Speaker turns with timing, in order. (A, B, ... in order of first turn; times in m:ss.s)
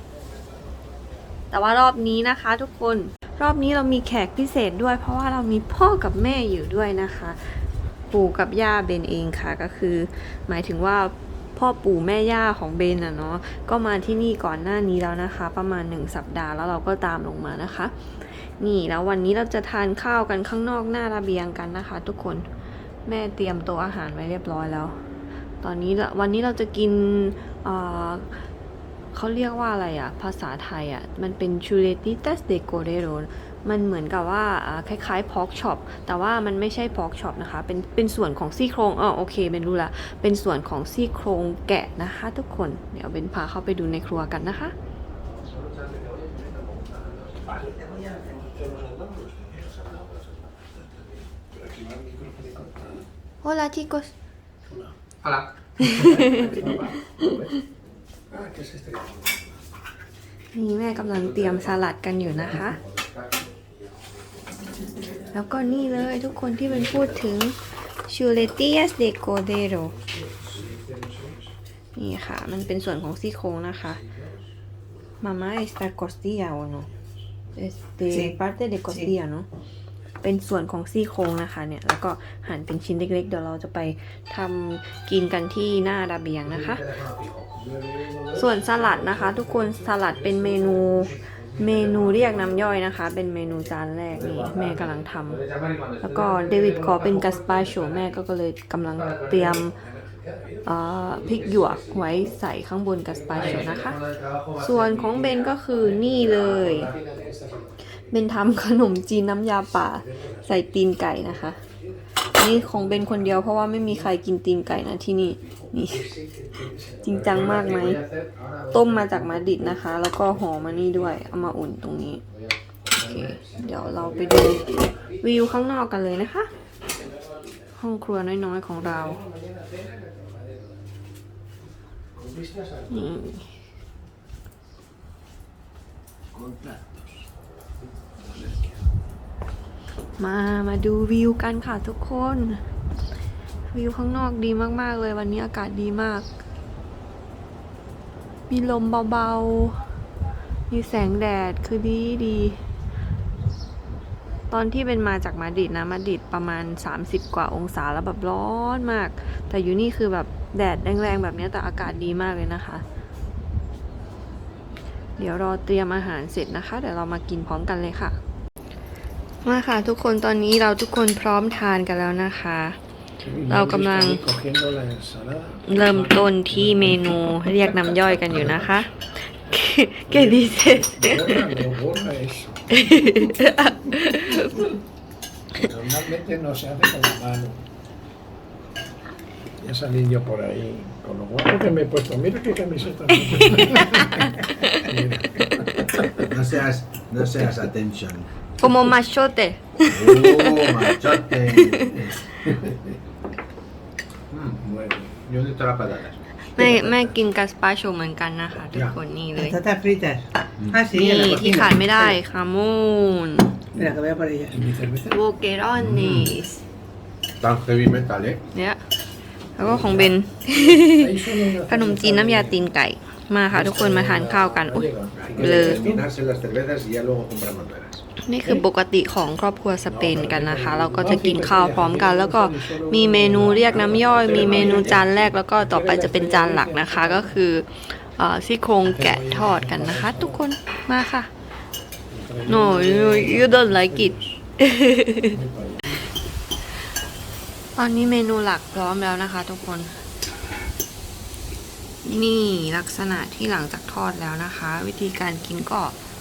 0:01.5-0:22.4 A
0:23.0-0:25.0 A
0:25.6-0:28.4 A
0:29.1-0:44.7 A
0:45.4-0:47.6 B
0:47.4-0:50.0 C
0:51.4-0:53.0 C
0:53.4-0:54.1 A
0:54.7-0:54.9 C
0:55.2-0:56.5 B
0:55.8-0:56.6 A
0:55.8-0:57.5 C
0:58.3-0:59.4 C
1:00.5-1:02.8 A
1:01.1-1:03.6 B
1:05.3-1:10.0 A
1:06.6-1:06.9 B
1:10.2-1:10.8 B
1:10.4-1:11.4 C
1:11.9-1:14.0 A
1:15.2-1:16.9 A
1:17.5-1:19.5 A
1:18.1-1:19.1 D
1:20.2-1:26.8 A
1:26.4-1:28.7 B
1:28.0-1:31.2 C
1:28.3-1:35.4 A
1:31.2-1:32.9 B
1:34.1-1:38.2 B
1:36.0-1:39.8 A
1:38.9-1:42.3 B
1:40.0-1:40.6 C
1:40.6-1:44.0 A
1:43.1-1:47.6 B
1:43.3-1:43.8 C
1:44.6-1:46.9 A
1:46.7-1:47.7 C
1:48.0-1:51.6 A
1:50.0-1:50.6 C
1:52.3-1:56.0 A
1:52.4-1:54.1 C
1:55.9-1:57.5 C
1:56.9-2:01.6 B
1:57.0-1:58.0 A
1:58.7-2:02.2 A
2:02.3-2:05.3 B
2:02.9-2:06.5 A
2:07.8-2:09.2 A
2:08.8-2:09.6 C
2:09.6-2:10.6 B
2:12.2-2:13.0 B
2:12.9-2:13.5 A
2:18.2-2:18.6 C
2:20.2-2:22.6 A
2:23.7-2:26.2 A
2:28.5-2:29.8 A
2:30.7-2:32.6 A
2:34.5-2:42.8 A
2:45.2-2:48.2 A
2:49.4-2:52.8 A
2:53.2-2:58.8 C
2:53.5-2:54.2 A
2:55.6-2:58.9 A
2:59.5-3:01.4 A
3:00.1-3:02.8 C
3:02.7-3:04.7 A
3:05.6-3:07.6 C
3:09.6-3:16.2 C
3:13.1-3:16.0 A
3:16.1-3:18.3 B
3:18.6-3:22.2 A
3:19.8-3:23.0 B
3:24.3-3:26.2 B
3:26.5-3:29.6 A
3:26.6-3:26.8 D
3:29.3-3:32.2 D
3:30.9-3:33.6 A
3:33.7-3:34.6 D
3:34.5-3:35.2 C
3:35.1-3:36.6 A
3:35.8-3:36.4 B
3:37.4-3:38.4 B
3:38.5-3:38.8 A
3:39.6-3:44.9 A
3:39.6-3:42.6 C
3:43.5-3:46.0 C
3:45.1-3:48.0 B
3:45.4-3:45.8 A
3:45.7-3:46.0 D
3:48.2-4:01.3 A
3:49.8-3:57.4 C
3:54.3-3:55.0 B
3:58.8-4:00.4 C
4:02.1-4:04.4 C
4:02.5-4:05.3 A
4:05.2-4:06.0 C
4:07.8-4:10.0 A
4:12.0-4:16.0 A